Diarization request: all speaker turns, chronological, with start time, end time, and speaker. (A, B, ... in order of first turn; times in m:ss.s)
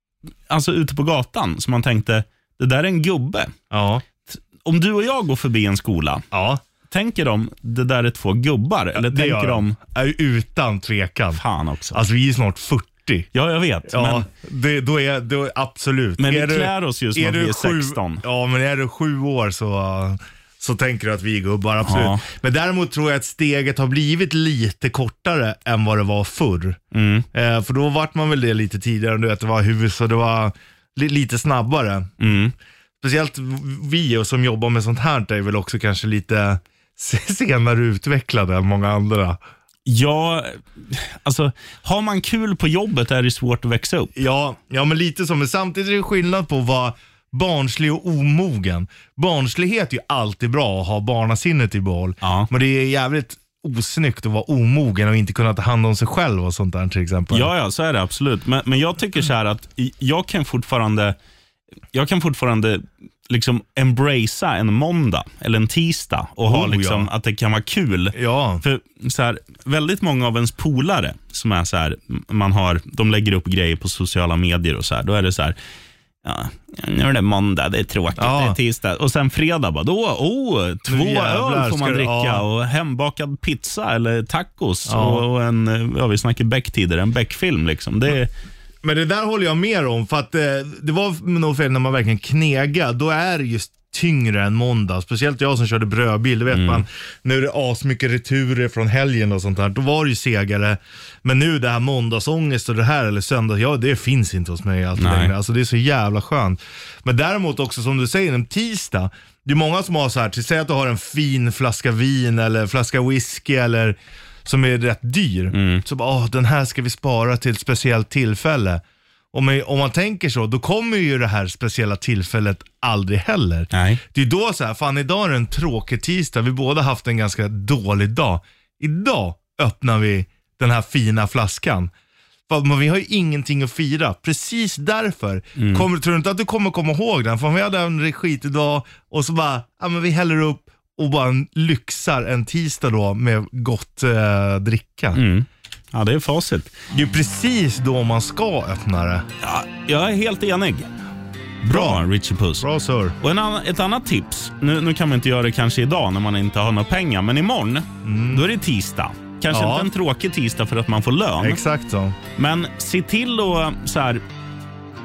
0:00.5-0:03.5 A
0:03.7-0:04.0 B
0:04.3-0:06.2 A
0:06.3-0:06.6 B
0:06.9-0:09.8 A
0:08.9-0:11.4 B
0:11.3-0:12.0 A
0:11.9-0:13.3 B
0:13.3-0:14.3 A
0:13.9-0:26.8 B
0:16.2-0:18.2 A
0:21.8-0:22.2 A
0:26.9-0:27.2 A
0:27.3-0:32.1 B
0:32.2-0:32.5 A
0:33.0-0:39.4 B
0:39.8-0:44.1 A
0:44.2-0:57.5 B
0:52.2-0:52.5 A
0:57.3-1:01.2 A
1:01.9-1:15.6 A
1:06.4-1:07.1 B
1:08.1-1:08.6 B
1:16.2-1:28.3 A
1:18.2-1:18.6 B
1:20.9-1:22.4 B
1:24.9-1:25.2 B
1:28.8-1:58.8 B
1:36.5-1:36.8 A
1:45.0-1:45.3 A
1:55.5-1:55.8 A
1:59.3-2:11.9 B
2:03.7-2:04.0 A
2:12.5-2:25.2 B
2:15.6-2:15.9 A
2:25.1-2:26.7 A
2:26.9-2:29.2 B
2:29.4-2:30.9 A
2:31.6-2:32.6 A
2:31.7-2:32.0 B
2:32.6-2:33.2 B
2:33.2-2:41.6 A
2:38.0-2:38.4 B
2:39.5-2:39.9 B
2:41.4-2:42.2 B
2:42.4-2:44.2 A